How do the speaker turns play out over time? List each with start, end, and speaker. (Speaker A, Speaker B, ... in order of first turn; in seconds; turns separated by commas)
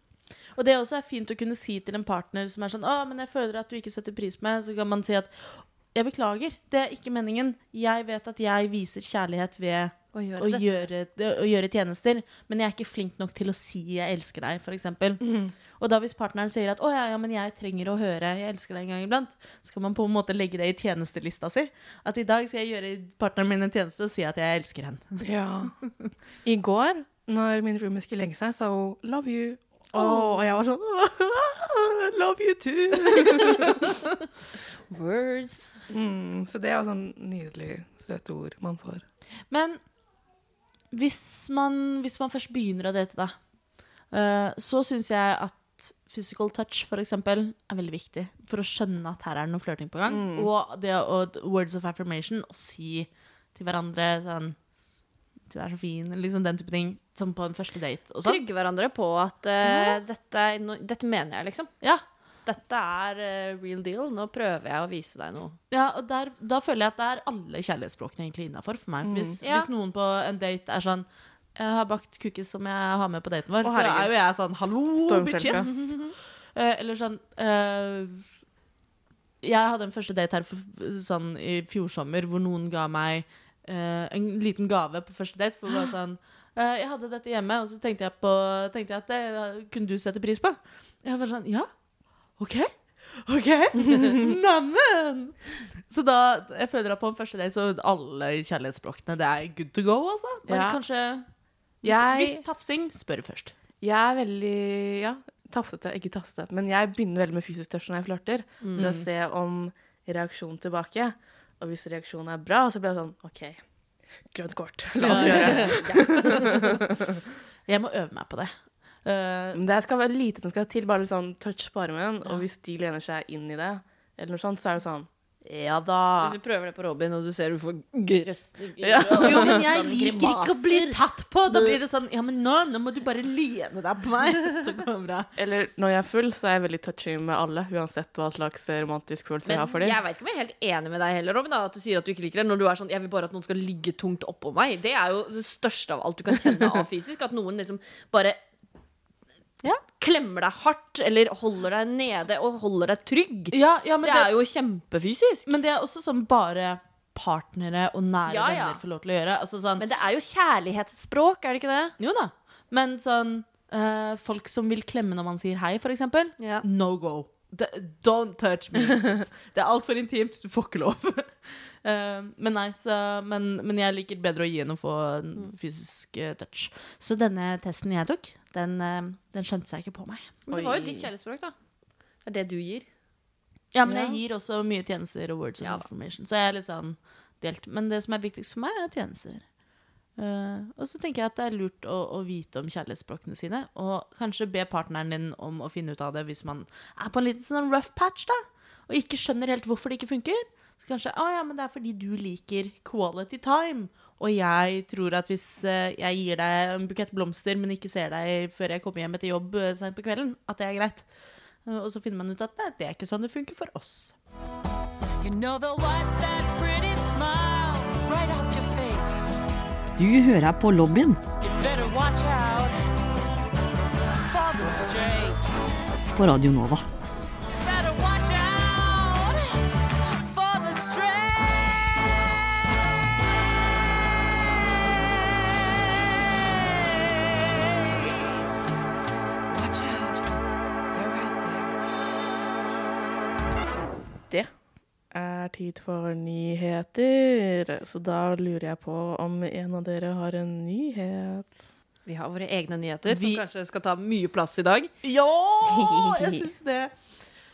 Speaker A: 0.6-15.3, Speaker B: 10.1-10.6, Speaker C: 15.2-15.5, Speaker A: 15.8-25.3, Speaker C: 25.2-25.7, Speaker C: 26.4-33.8, Speaker B: 34.9-35.8, Speaker C: 35.9-39.0, Speaker A: 39.5-39.8, Speaker A: 40.9-43.4, Speaker A: 44.1-54.5, Speaker C: 50.1-50.5, Speaker A: 55.5-58.4, Speaker B: 58.2-61.7, Speaker A: 59.6-60.0, Speaker B: 62.5-65.6, Speaker A: 65.7-76.0, Speaker C: 69.0-69.4, Speaker B: 69.4-69.7, Speaker C: 73.6-74.1, Speaker C: 75.0-75.7, Speaker B: 75.6-76.1, Speaker A: 76.5-78.3, Speaker A: 79.4-91.7, Speaker A: 92.4-101.3, Speaker C: 100.5-100.8, Speaker A: 101.8-103.5, Speaker C: 101.8-102.4, Speaker C: 103.8-113.6, Speaker B: 108.6-109.0, Speaker A: 108.8-109.0, Speaker C: 114.3-117.2, Speaker A: 115.0-115.8, Speaker B: 115.1-116.6, Speaker A: 117.7-118.5, Speaker A: 119.0-119.6, Speaker C: 119.5-125.9, Speaker A: 125.6-126.3, Speaker B: 126.2-131.8, Speaker C: 128.8-129.6, Speaker A: 129.2-135.3, Speaker C: 135.4-140.0, Speaker B: 139.4-148.4, Speaker B: 149.9-155.6, Speaker A: 153.5-154.3, Speaker A: 155.5-159.8, Speaker B: 158.3-158.8, Speaker B: 159.8-161.9, Speaker A: 162.0-180.4, Speaker B: 166.4-166.6, Speaker B: 180.5-181.5, Speaker C: 180.5-181.1, Speaker B: 182.3-182.9, Speaker A: 183.7-189.4, Speaker C: 183.8-184.2, Speaker B: 185.6-185.9, Speaker A: 190.2-211.1, Speaker A: 211.6-214.1, Speaker D: 215.2-219.4, Speaker E: 220.0-221.2, Speaker D: 221.4-222.8, Speaker D: 224.2-225.7, Speaker E: 226.2-226.9, Speaker D: 227.6-229.6, Speaker D: 230.2-231.8, Speaker D: 234.9-238.8, Speaker D: 239.5-240.3, Speaker D: 240.9-241.8, Speaker C: 245.1-251.6, Speaker B: 252.1-254.9, Speaker A: 253.1-253.4, Speaker A: 255.0-256.9, Speaker B: 255.7-256.5